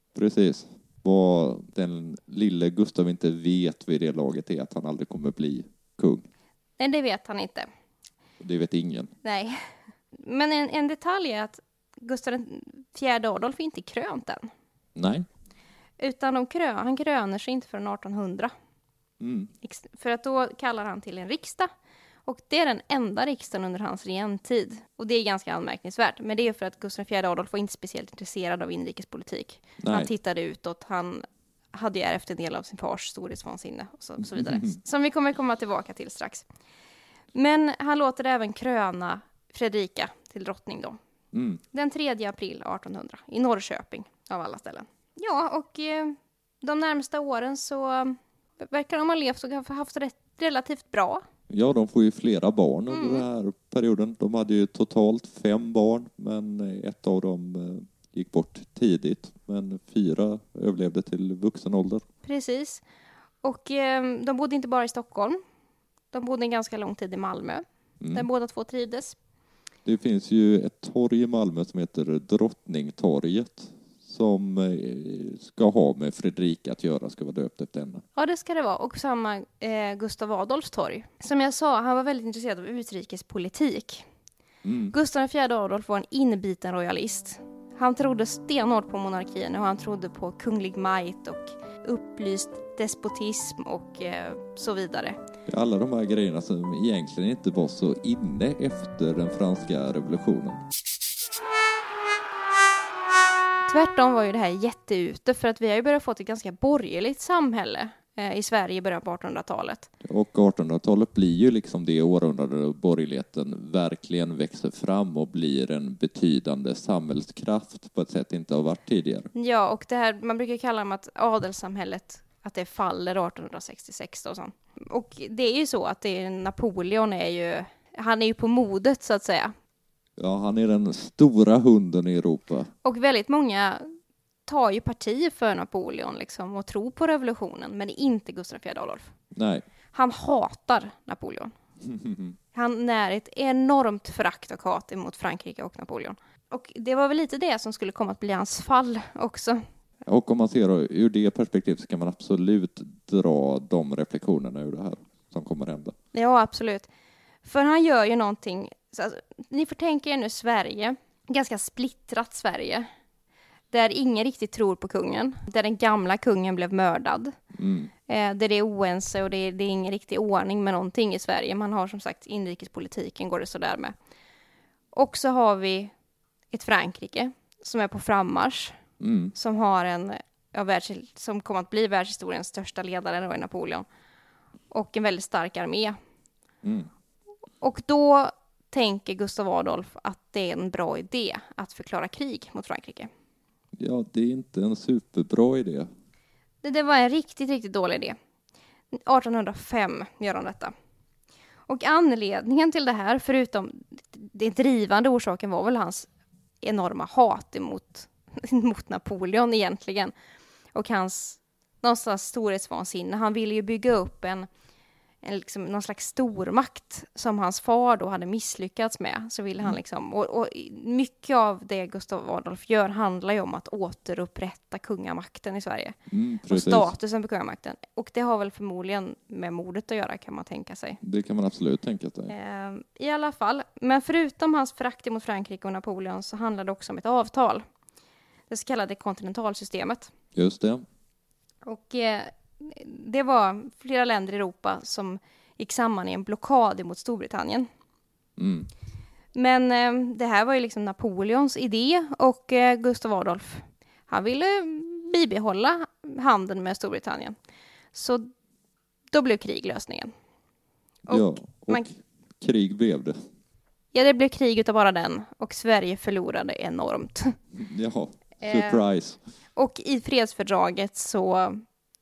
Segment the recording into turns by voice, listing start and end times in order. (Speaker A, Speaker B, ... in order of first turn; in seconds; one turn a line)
Speaker A: 0.1-6.2
Speaker B: 6.8-7.7
Speaker A: 8.4-9.1
Speaker B: 9.2-14.5
Speaker A: 14.9-15.3
Speaker B: 16.0-18.5
Speaker A: 19.2-19.5
Speaker B: 19.6-21.7
Speaker B: 22.3-36.5
Speaker A: 29.8-30.1
Speaker A: 34.2-34.8
Speaker B: 37.3-41.0
Speaker A: 41.3-41.6
Speaker B: 41.7-51.2
Speaker A: 51.5-62.0
Speaker B: 52.9-53.2
Speaker B: 62.2-62.8
Speaker B: 63.4-65.4
Speaker B: 66.1-69.2
Speaker A: 68.0-68.3
Speaker A: 69.8-78.0
Speaker B: 78.2-84.1
Speaker A: 84.6-84.9
Speaker B: 84.9-95.2
Speaker A: 95.5-100.6
Speaker B: 103.7-109.9
Speaker A: 110.0-119.3
Speaker B: 119.3-129.5
Speaker A: 130.2-132.7
Speaker B: 132.8-133.9
Speaker B: 134.5-139.1
Speaker A: 139.3-139.6
Speaker B: 139.9-141.5
Speaker A: 141.8-142.4
Speaker B: 142.5-149.6
Speaker A: 150.1-155.9
Speaker B: 156.1-156.9
Speaker B: 157.4-162.9
Speaker B: 163.7-167.4
Speaker A: 167.6-167.9
Speaker B: 168.1-173.9
Speaker B: 174.9-175.9
Speaker B: 176.5-178.8
Speaker A: 179.0-179.3
Speaker B: 179.3-183.9
Speaker B: 184.7-186.0
Speaker A: 186.6-186.9
Speaker B: 187.6-193.1
Speaker A: 193.8-195.9
Speaker B: 196.6-198.2
Speaker B: 198.9-200.7
Speaker B: 201.7-206.1
Speaker B: 206.6-210.1
Speaker B: 210.7-214.5
Speaker B: 215.2-226.0
Speaker A: 226.1-226.9
Speaker B: 226.5-231.0
Speaker A: 231.0-232.3
Speaker B: 232.3-237.6
Speaker B: 238.5-240.1
Speaker A: 240.3-240.8
Speaker B: 241.7-247.7
Speaker A: 248.4-248.7
Speaker B: 249.3-257.4
Speaker B: 257.9-258.3
Speaker B: 259.1-260.1
Speaker B: 261.1-261.9
Speaker A: 261.1-263.2
Speaker B: 263.9-267.4
Speaker A: 267.6-269.2
Speaker B: 268.4-268.9
Speaker B: 269.6-271.6